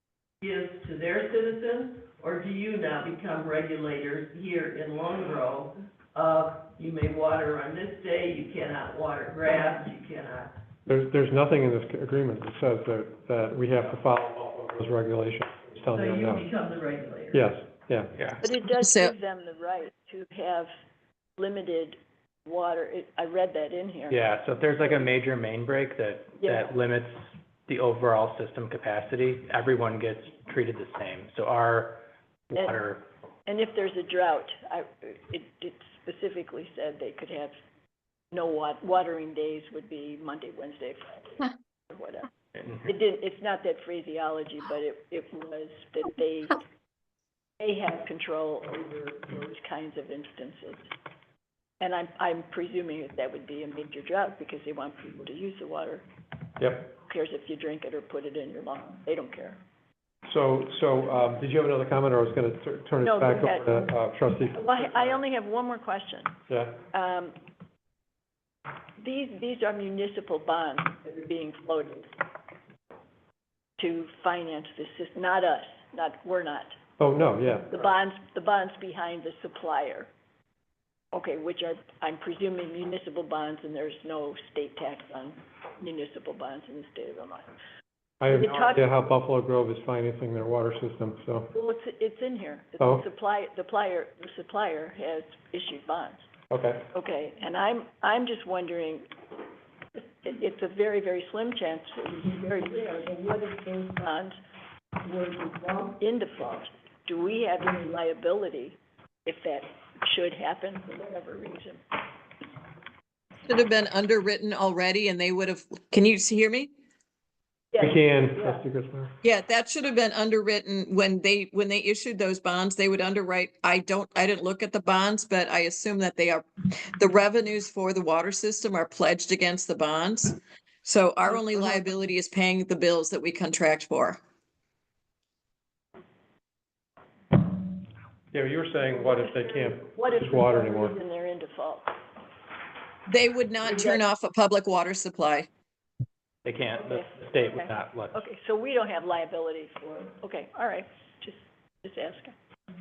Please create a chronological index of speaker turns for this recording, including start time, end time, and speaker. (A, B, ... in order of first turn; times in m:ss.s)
0:00.4-0:10.5 A
0:10.9-0:16.5 B
0:15.9-0:17.4 A
0:17.3-0:18.1 B
0:18.1-0:18.4 C
0:18.4-0:20.7 D
0:18.8-0:19.1 E
0:21.4-0:24.2 D
0:24.1-0:33.0 C
0:26.4-0:26.7 D
0:33.4-0:37.5 D
0:38.3-0:42.3 D
0:42.8-0:46.6 D
0:47.6-0:50.9 D
0:51.8-0:56.0 D
0:56.6-0:56.9 B
0:57.0-0:59.6 D
1:00.2-1:05.0 B
1:03.0-1:03.9 D
1:04.5-1:06.4 D
1:06.5-1:06.8 B
1:06.9-1:07.4 D
1:09.0-1:12.1 D
1:13.8-1:16.8 D
1:17.0-1:17.7 B
1:17.7-1:20.1 D
1:21.1-1:27.4 D
1:28.2-1:31.5 B
1:28.3-1:28.8 D
1:31.5-1:36.2 D
1:32.8-1:33.0 B
1:36.5-1:36.8 B
1:36.9-1:39.1 D
1:39.9-1:44.3 D
1:45.0-1:51.8 D
1:53.4-1:56.7 E
1:57.7-1:58.6 D
1:57.8-1:59.1 B
1:59.2-2:14.2 E
2:18.3-2:21.0 B
2:19.0-2:21.9 D
2:23.1-2:25.5 E
2:26.4-2:28.2 C
2:26.9-2:32.3 D